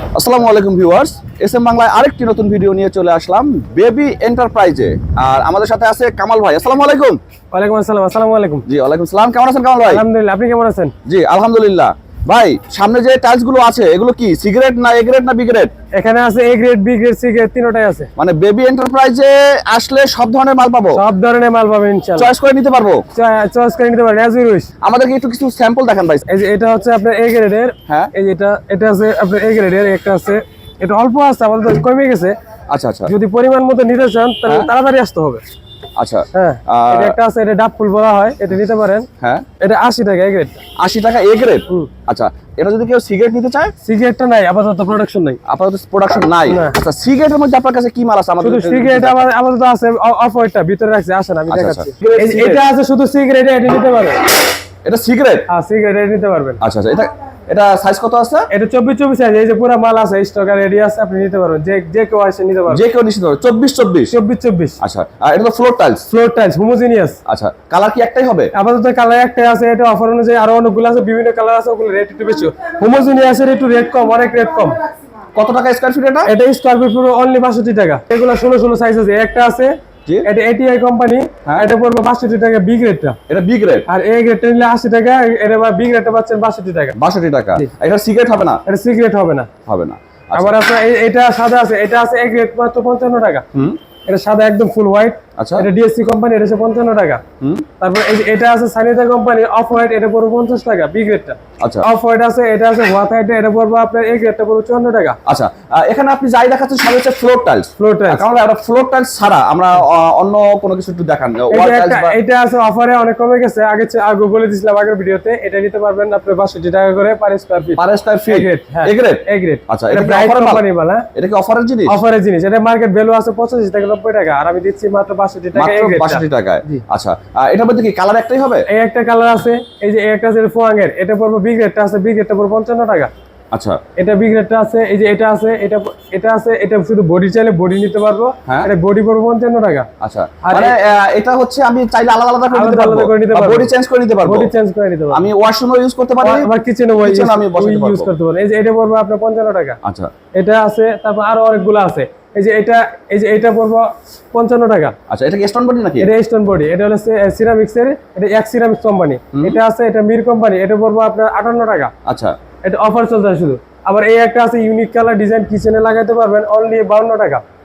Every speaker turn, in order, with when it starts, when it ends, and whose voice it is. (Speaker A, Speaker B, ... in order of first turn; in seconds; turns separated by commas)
Speaker A: 0.1-7.2, Speaker B: 7.5-8.6, Speaker A: 8.7-10.0, Speaker B: 9.8-10.9, Speaker A: 11.1-15.7, Speaker B: 16.0-18.1, Speaker A: 18.2-21.0, Speaker B: 20.9-22.3, Speaker A: 22.2-23.0, Speaker B: 23.1-24.7, Speaker A: 24.8-26.2, Speaker B: 26.3-32.4, Speaker A: 32.7-33.1, Speaker B: 33.1-35.4, Speaker A: 36.0-37.2, Speaker B: 36.3-39.1, Speaker A: 39.2-39.5, Speaker B: 39.6-40.6, Speaker A: 40.8-43.7, Speaker B: 43.8-45.4, Speaker A: 45.5-49.3, Speaker B: 46.5-46.8, Speaker B: 48.4-54.2, Speaker A: 51.5-52.6, Speaker A: 54.9-55.5, Speaker B: 55.5-56.6, Speaker A: 56.6-58.5, Speaker B: 58.5-62.8, Speaker A: 62.7-64.2, Speaker B: 64.1-64.8, Speaker A: 64.8-66.1, Speaker B: 66.1-67.2, Speaker A: 67.3-68.5, Speaker B: 68.5-74.8, Speaker A: 75.3-76.3, Speaker B: 76.3-79.7, Speaker B: 80.2-83.2, Speaker A: 81.5-81.7, Speaker A: 83.3-83.9, Speaker B: 83.9-87.0, Speaker A: 87.0-88.6, Speaker B: 88.7-89.5, Speaker A: 89.7-90.5, Speaker B: 90.4-93.4, Speaker B: 94.1-97.2, Speaker A: 95.4-95.7, Speaker B: 97.8-105.2, Speaker A: 101.6-101.9, Speaker A: 105.3-112.2, Speaker B: 107.8-108.3, Speaker B: 111.5-121.1, Speaker A: 117.8-120.6, Speaker A: 121.2-122.0, Speaker B: 121.9-126.8, Speaker A: 125.5-128.7, Speaker B: 128.7-133.1, Speaker A: 133.5-133.8, Speaker B: 134.0-139.9, Speaker A: 140.0-144.5, Speaker B: 140.4-140.8, Speaker B: 142.5-143.7, Speaker B: 144.2-145.2, Speaker A: 145.1-146.5, Speaker B: 146.2-149.8, Speaker A: 147.0-148.1, Speaker A: 149.8-150.1, Speaker B: 150.3-154.9, Speaker A: 155.1-156.1, Speaker B: 156.0-161.9, Speaker A: 159.3-159.6, Speaker A: 162.1-162.3, Speaker B: 162.6-167.4